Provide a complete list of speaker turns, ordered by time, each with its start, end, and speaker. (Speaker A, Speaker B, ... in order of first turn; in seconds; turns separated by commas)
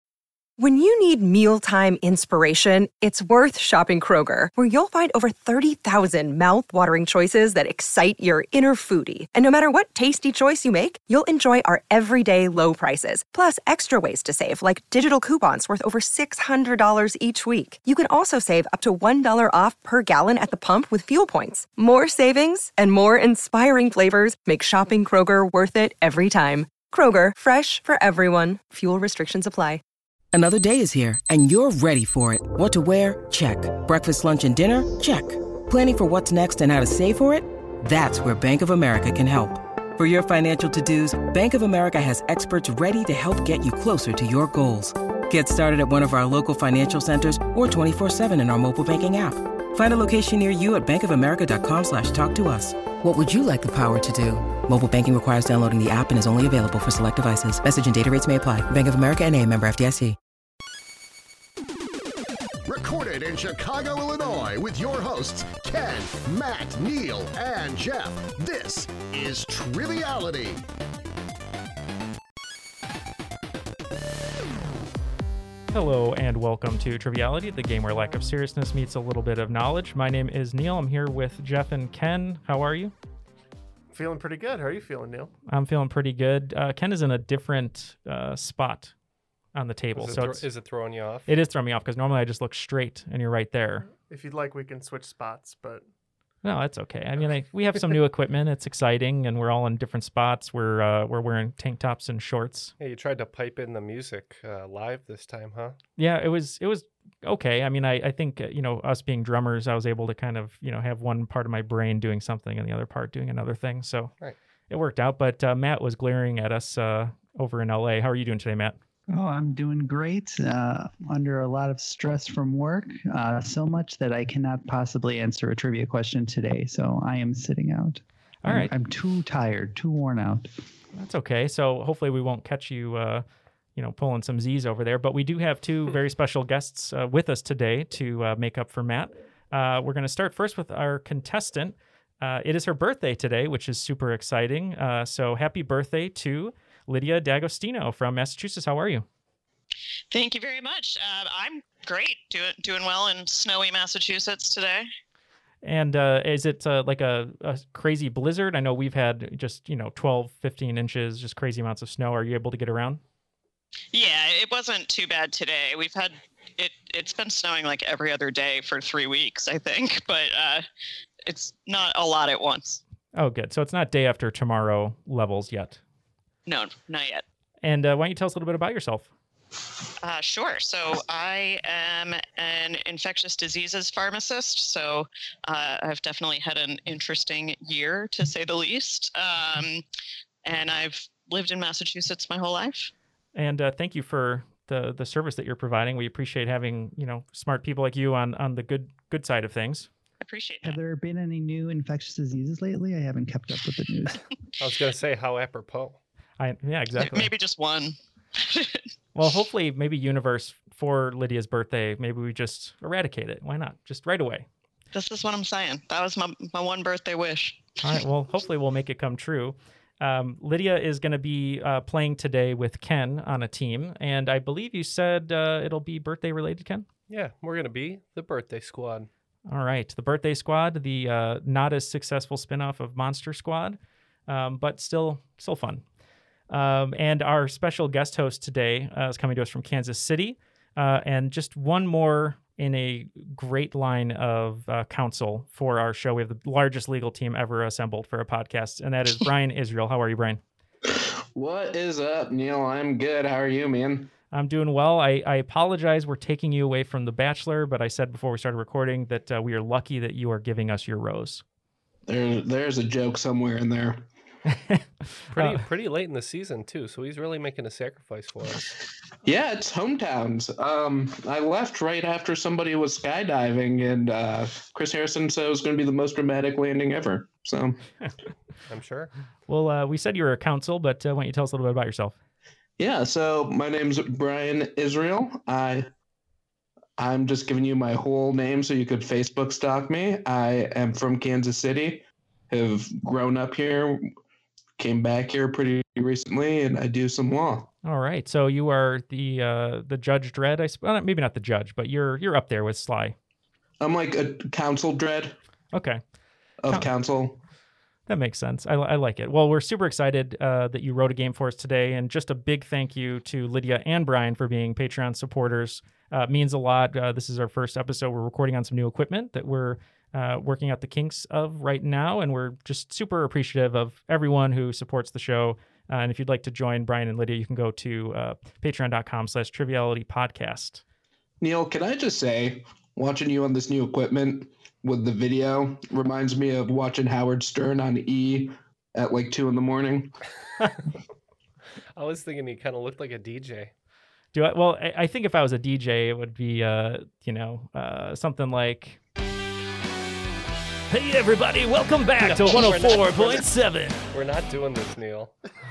Speaker A: 0.6-29.8, Speaker B: 30.3-60.2, Speaker C: 62.6-70.6, Speaker D: 75.7-82.9, Speaker E: 83.9-85.3, Speaker D: 85.5-88.9, Speaker D: 89.5-90.4, Speaker F: 90.0-91.3, Speaker D: 91.3-93.9, Speaker E: 94.0-95.8, Speaker D: 96.4-102.7, Speaker F: 102.8-105.8, Speaker D: 106.0-114.1, Speaker D: 114.7-118.8, Speaker G: 119.1-130.5, Speaker D: 128.4-128.7, Speaker D: 130.9-133.2, Speaker D: 133.8-149.0, Speaker H: 150.1-154.9, Speaker D: 155.6-163.0, Speaker H: 163.9-170.7, Speaker H: 171.2-172.8, Speaker D: 173.1-175.8, Speaker H: 176.4-177.2, Speaker D: 177.6-179.1, Speaker H: 180.0-189.8, Speaker H: 190.4-192.9, Speaker D: 193.3-199.9, Speaker H: 200.2-200.8, Speaker G: 200.6-204.2, Speaker F: 204.6-206.0, Speaker D: 206.4-207.3, Speaker H: 207.0-208.8, Speaker D: 209.1-214.4, Speaker H: 214.9-217.7, Speaker D: 217.8-226.9, Speaker F: 227.1-229.1, Speaker D: 229.5-235.8, Speaker D: 236.5-250.4, Speaker I: 250.9-254.1, Speaker D: 254.3-261.4, Speaker I: 262.1-264.1, Speaker D: 264.5-264.8, Speaker F: 265.3-268.7, Speaker D: 265.4-265.6, Speaker I: 269.2-277.8, Speaker F: 278.7-279.1, Speaker D: 279.5-282.1, Speaker I: 282.8-285.9, Speaker I: 287.0-294.1, Speaker I: 294.8-297.7, Speaker D: 297.8-303.1, Speaker I: 303.8-305.4, Speaker D: 305.7-306.0, Speaker I: 306.6-307.4, Speaker D: 308.1-330.8, Speaker I: 331.4-340.1, Speaker F: 341.9-343.7, Speaker D: 344.3-349.0, Speaker D: 350.9-354.0, Speaker F: 352.2-353.5, Speaker F: 354.1-355.4